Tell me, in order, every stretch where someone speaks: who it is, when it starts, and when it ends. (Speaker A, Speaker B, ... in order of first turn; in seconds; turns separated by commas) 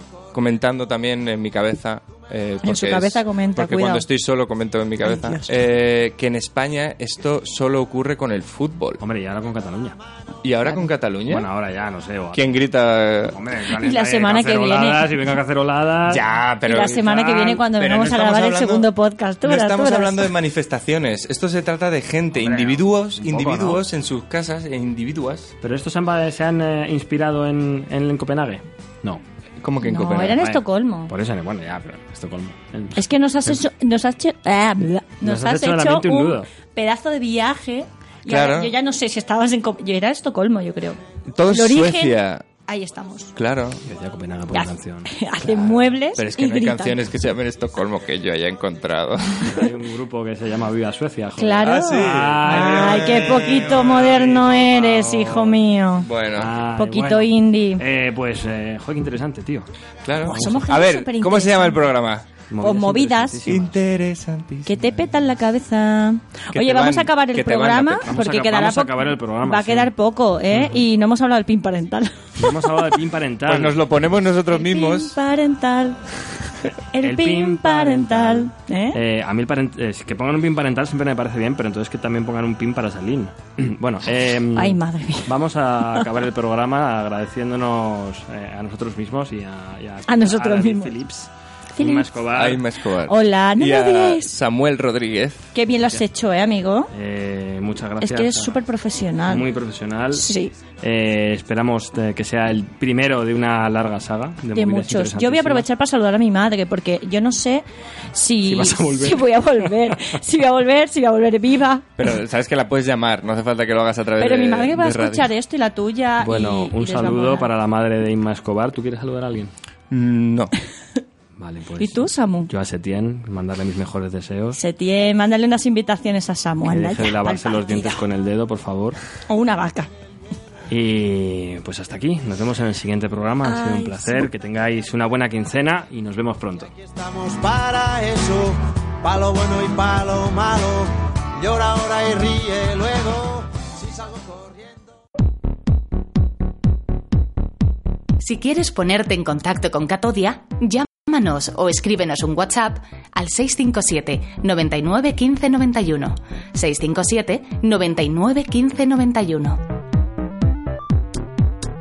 Speaker A: 0.3-9.0, Speaker B: 2.6-4.1, Speaker B: 5.0-5.6, Speaker C: 9.0-10.0, Speaker A: 10.4-11.5, Speaker C: 11.3-12.6, Speaker A: 12.3-13.4, Speaker C: 13.3-16.3, Speaker B: 13.7-15.1, Speaker A: 16.1-18.9, Speaker B: 16.7-20.3, Speaker C: 16.8-17.5, Speaker A: 19.4-25.5, Speaker C: 22.4-23.8, Speaker C: 25.6-29.2, Speaker A: 29.6-30.4, Speaker B: 29.8-31.1, Speaker C: 30.4-33.6, Speaker B: 33.0-43.4, Speaker C: 35.2-36.5, Speaker A: 38.3-38.7, Speaker A: 41.3-42.5, Speaker A: 43.4-43.9, Speaker C: 43.9-45.2, Speaker B: 44.5-47.0, Speaker A: 45.5-49.7, Speaker C: 49.5-55.6, Speaker B: 51.4-56.1, Speaker A: 51.6-55.0, Speaker A: 56.0-56.6, Speaker C: 56.4-59.7, Speaker B: 56.8-57.8, Speaker A: 60.0-62.4, Speaker B: 60.2-61.9, Speaker C: 60.3-60.7, Speaker C: 62.5-63.7, Speaker B: 62.6-63.5, Speaker A: 63.4-65.0, Speaker B: 64.7-72.9, Speaker A: 66.5-68.1, Speaker C: 68.0-69.9, Speaker C: 70.5-70.8, Speaker C: 72.4-73.8, Speaker A: 73.5-75.2, Speaker B: 74.5-76.2, Speaker B: 76.9-79.0, Speaker C: 77.0-92.7, Speaker B: 84.6-85.3, Speaker B: 90.1-91.0, Speaker B: 91.8-92.1, Speaker A: 92.3-95.5, Speaker B: 93.0-94.3, Speaker B: 95.5-96.9, Speaker C: 96.9-98.6, Speaker B: 98.0-99.5, Speaker C: 99.3-100.3, Speaker B: 100.1-100.5, Speaker C: 100.8-105.7, Speaker B: 104.5-111.9, Speaker C: 108.5-110.0, Speaker A: 112.0-115.3, Speaker B: 114.2-117.5, Speaker C: 116.2-119.5, Speaker A: 119.9-120.5, Speaker C: 121.4-124.6, Speaker B: 121.8-122.5, Speaker B: 124.5-128.0, Speaker C: 126.7-129.0, Speaker B: 129.3-129.9, Speaker C: 130.7-136.7, Speaker B: 133.4-134.3, Speaker D: 136.8-144.8, Speaker E: 148.2-159.6